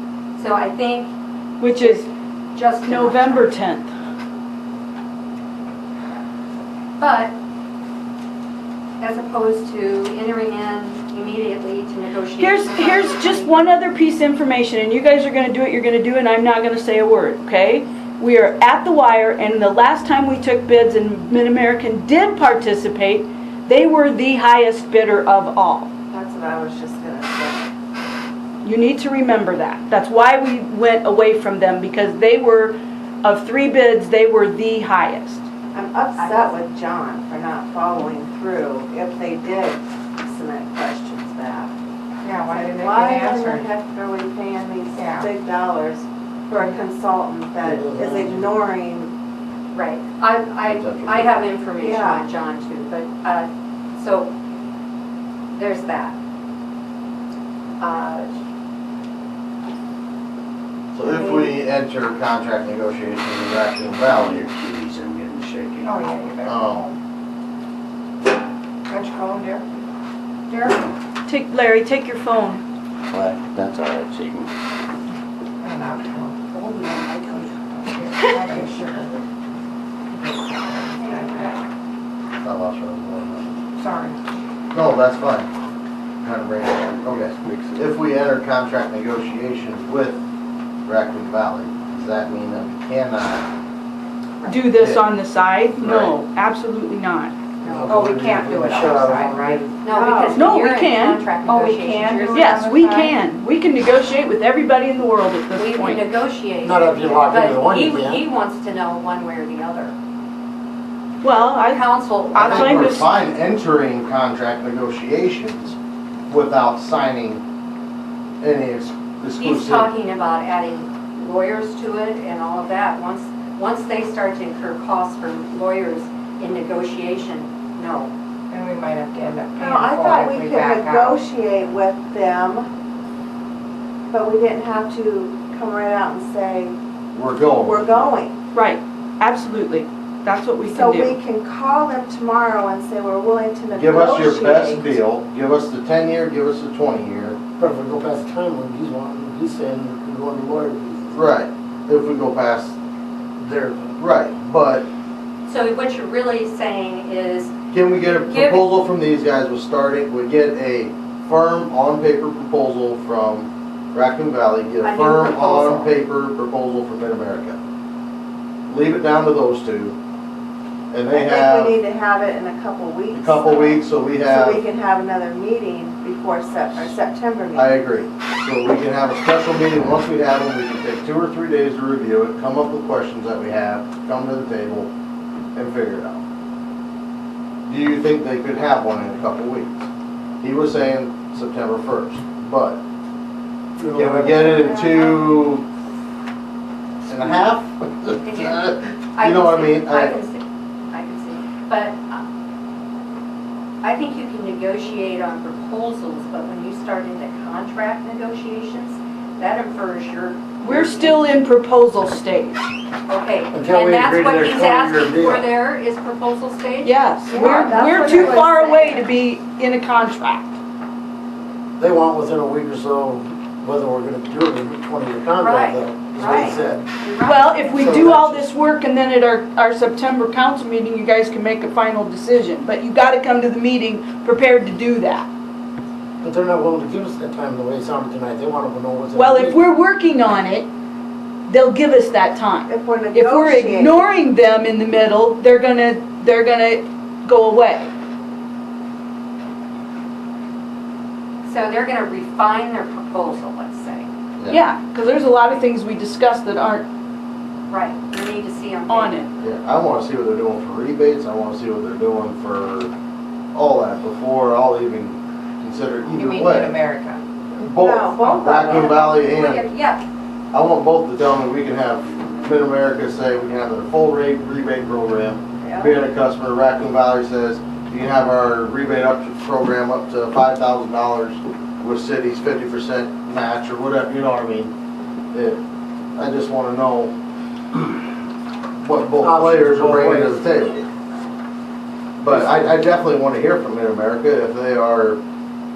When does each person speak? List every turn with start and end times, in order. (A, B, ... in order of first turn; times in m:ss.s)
0:00.4-0:01.1 A
0:01.6-0:02.1 B
0:01.6-0:03.5 A
0:02.8-0:03.9 B
0:07.0-0:07.3 A
0:09.0-0:13.7 A
0:12.4-0:25.9 B
0:26.1-0:27.7 C
0:28.6-0:35.4 B
0:35.7-0:41.7 C
0:36.2-0:36.5 A
0:42.2-0:43.7 D
0:42.5-0:49.1 C
0:44.9-0:45.3 D
0:47.6-0:48.4 E
0:49.7-0:54.3 A
0:50.7-0:51.4 F
0:51.8-0:52.2 C
0:55.5-0:56.2 A
0:57.8-0:58.3 A
1:00.9-1:04.4 F
1:01.0-1:01.5 C
1:04.0-1:06.2 G
1:05.8-1:07.0 D
1:06.4-1:06.9 F
1:08.9-1:09.6 D
1:10.5-1:10.8 D
1:11.2-1:12.6 B
1:13.1-1:14.5 G
1:15.6-1:19.2 D
1:18.2-1:18.7 B
1:20.1-1:21.6 D
1:22.4-1:23.5 F
1:23.8-1:24.2 D
1:24.7-1:25.5 F
1:26.2-1:30.2 F
1:30.8-1:33.4 F
1:34.4-1:37.3 B
1:34.7-1:35.1 F
1:35.8-1:36.2 F
1:37.6-1:39.7 E
1:37.7-1:40.4 D
1:39.8-1:42.5 A
1:39.9-1:40.4 C
1:40.3-1:41.3 B
1:41.4-1:43.2 D
1:42.3-1:46.1 B
1:45.5-1:49.9 A
1:46.6-1:48.2 E
1:51.2-1:53.1 B
1:51.3-1:52.9 A
1:52.4-1:55.7 F
1:56.3-1:57.4 F
1:58.4-1:59.9 F
1:59.4-2:08.1 A
2:08.5-2:11.2 D
2:09.6-2:12.7 C
2:14.1-2:16.7 C
2:17.1-2:18.1 F
2:17.6-2:18.4 C
2:18.5-2:21.2 B
2:20.6-2:25.0 C
2:23.7-2:27.4 F
2:27.6-2:31.2 E
2:31.1-2:32.8 F
2:33.4-2:34.0 E
2:34.0-2:34.9 F
2:35.5-2:38.7 A
2:37.7-2:47.6 F
2:44.8-2:46.0 A
2:48.7-2:50.0 F
2:50.9-2:51.8 F
2:51.1-2:57.8 C
2:53.1-2:54.6 F
2:57.5-3:04.9 F
3:05.5-3:06.2 F
3:07.7-3:09.9 F
3:10.4-3:12.8 F
3:13.8-3:15.1 E
3:13.9-3:15.6 F
3:17.0-3:20.2 F
3:18.2-3:22.2 A
3:23.8-3:31.3 A
3:30.6-3:32.6 B
3:33.1-3:39.1 A
3:33.5-3:35.5 E
3:36.8-3:40.5 B
3:37.3-3:38.4 C
3:41.8-3:46.9 E
3:45.4-3:48.0 A
3:47.2-3:55.3 B
3:47.8-3:48.5 E
3:56.2-3:59.6 E
3:59.1-4:00.7 B
4:01.5-4:07.9 B
4:02.7-4:04.0 C
4:11.4-4:14.1 A
4:14.5-4:16.8 B
4:17.7-4:19.3 A
4:18.9-4:19.3 B
4:19.4-4:22.9 F
4:23.5-4:26.8 F
4:26.1-4:27.2 D
4:27.6-4:29.6 F
4:27.7-4:29.2 C
4:28.6-4:30.0 A
4:30.5-4:44.7 F
4:35.6-4:36.0 C
4:45.3-4:45.6 F
4:46.1-4:47.1 F
4:48.8-4:50.8 F
4:49.2-4:50.4 E
4:52.2-4:55.2 F
4:52.3-4:52.8 E